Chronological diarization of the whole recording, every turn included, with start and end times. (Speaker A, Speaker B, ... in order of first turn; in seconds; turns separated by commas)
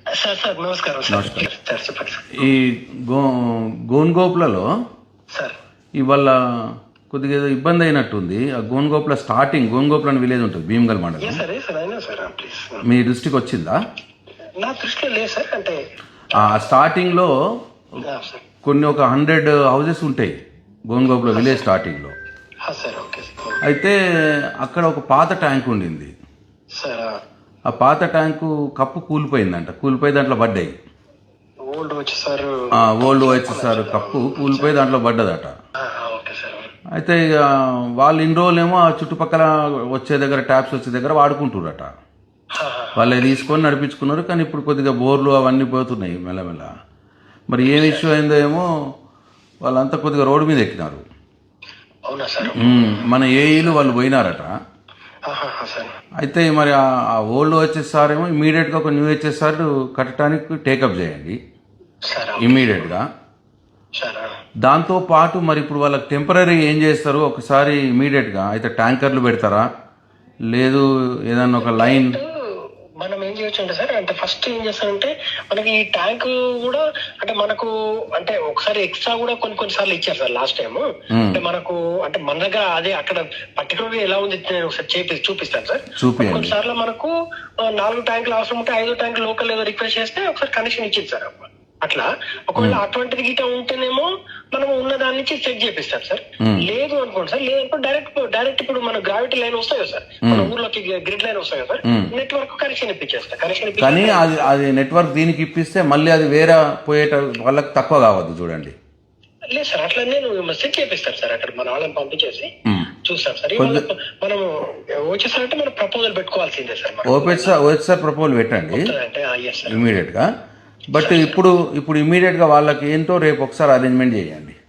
Speaker A: 0.2-2.3, Speaker B: 1.1-1.5, Speaker B: 2.4-4.7, Speaker B: 6.0-6.3, Speaker B: 7.1-11.4, Speaker A: 11.2-12.8, Speaker B: 12.8-13.8, Speaker A: 14.6-15.8, Speaker A: 16.4-16.7, Speaker B: 16.4-17.3, Speaker A: 18.0-18.4, Speaker B: 18.6-20.3, Speaker B: 20.9-22.1, Speaker A: 21.3-21.7, Speaker A: 22.7-23.6, Speaker B: 23.6-23.9, Speaker B: 24.6-26.1, Speaker A: 26.8-27.1, Speaker B: 27.7-30.7, Speaker A: 31.7-34.8, Speaker B: 32.8-35.5, Speaker A: 35.8-36.7, Speaker B: 37.0-37.4, Speaker B: 38.0-41.9, Speaker A: 42.5-43.3, Speaker B: 43.0-46.7, Speaker B: 47.5-48.7, Speaker A: 47.6-48.1, Speaker B: 49.6-51.0, Speaker A: 52.1-53.1, Speaker B: 52.5-54.5, Speaker A: 55.3-55.9, Speaker B: 56.2-61.4, Speaker A: 62.1-62.9, Speaker B: 62.4-63.0, Speaker A: 64.0-64.3, Speaker B: 64.7-69.6, Speaker B: 70.5-72.2, Speaker A: 71.6-87.1, Speaker B: 81.1-81.4, Speaker B: 86.0-86.5, Speaker A: 87.6-104.4, Speaker B: 100.2-100.5, Speaker B: 103.8-108.7, Speaker A: 109.5-112.5, Speaker A: 113.0-114.5, Speaker B: 113.6-113.8, Speaker A: 115.0-117.6, Speaker B: 117.1-118.8, Speaker A: 118.7-119.8, Speaker B: 119.7-120.2, Speaker B: 120.9-124.5, Speaker A: 120.9-121.4